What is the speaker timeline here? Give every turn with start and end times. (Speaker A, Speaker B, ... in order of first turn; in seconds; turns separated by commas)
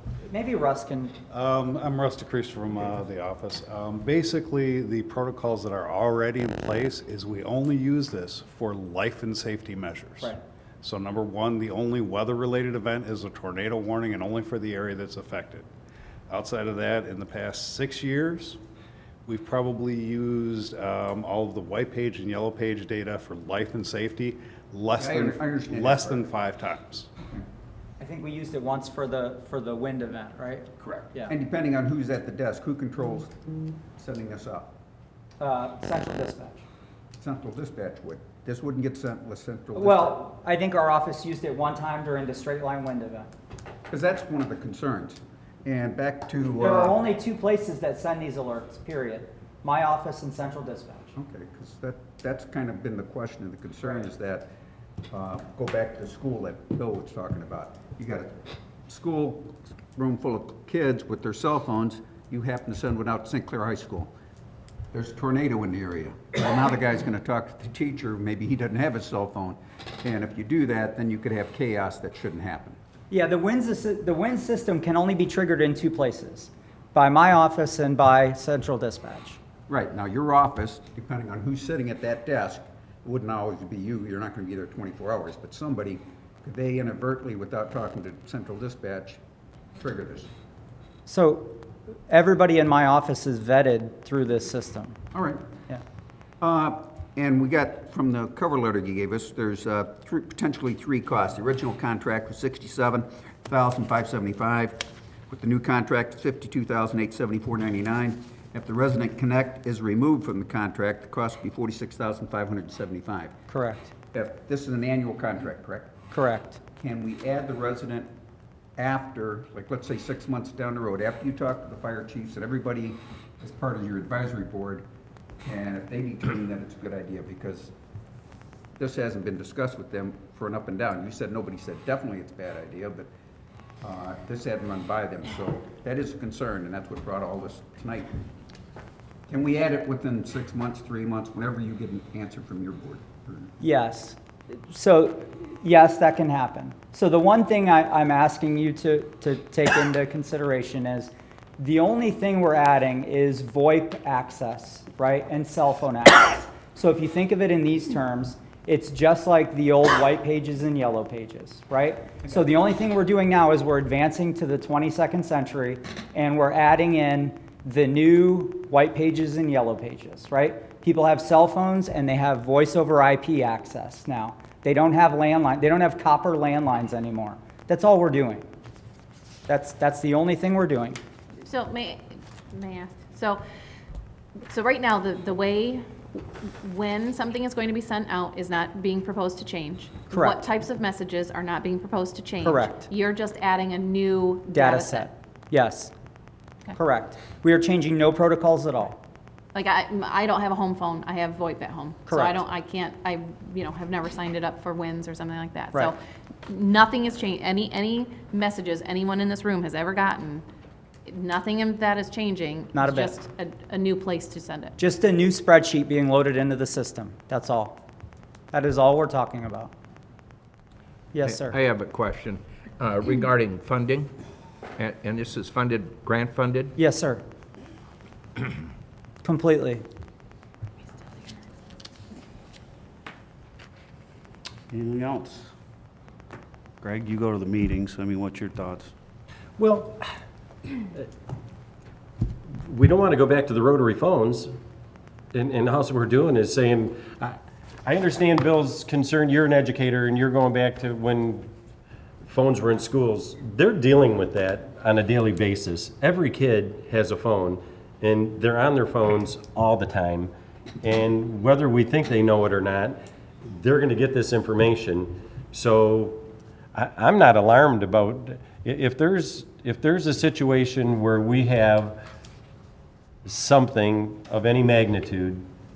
Speaker A: 0.3-1.2, Speaker B: 1.3-15.7, Speaker B: 16.3-18.6, Speaker B: 19.3-27.1, Speaker C: 25.0-26.3, Speaker A: 28.0-31.3, Speaker C: 30.8-33.4, Speaker C: 34.0-34.7, Speaker A: 35.4-36.6, Speaker C: 37.2-40.3, Speaker A: 39.7-43.3, Speaker C: 43.9-47.0, Speaker A: 46.6-51.1, Speaker C: 51.1-54.5, Speaker C: 55.1-64.1, Speaker C: 64.9-72.8, Speaker A: 73.1-79.4, Speaker C: 79.7-89.2, Speaker C: 89.8-90.3, Speaker A: 91.1-91.6, Speaker A: 92.1-95.0, Speaker C: 95.1-95.4, Speaker C: 96.4-113.3, Speaker A: 113.5-113.9, Speaker C: 114.1-115.9, Speaker A: 116.1-116.6, Speaker C: 116.8-118.1, Speaker C: 118.8-124.8, Speaker C: 125.4-127.7, Speaker C: 128.8-133.1, Speaker C: 133.8-138.2, Speaker C: 139.3-143.5, Speaker A: 143.6-178.4, Speaker A: 179.5-181.0, Speaker D: 181.4-183.4, Speaker D: 184.5-195.1, Speaker A: 190.1-190.4, Speaker A: 192.4-192.8, Speaker A: 194.5-195.9, Speaker A: 196.8-199.0, Speaker D: 199.5-206.0, Speaker A: 202.1-202.3, Speaker D: 206.5-210.4, Speaker D: 211.1-214.8, Speaker A: 212.7-213.2, Speaker A: 214.8-217.8, Speaker A: 218.5-219.7, Speaker A: 221.1-221.5, Speaker E: 221.2-224.1, Speaker E: 224.8-226.8, Speaker A: 226.8-227.2, Speaker A: 229.2-229.8, Speaker F: 234.7-235.4, Speaker F: 236.8-238.9, Speaker G: 242.6-244.5, Speaker G: 245.3-251.4, Speaker G: 252.2-266.2, Speaker G: 266.7-272.0, Speaker G: 273.2-275.4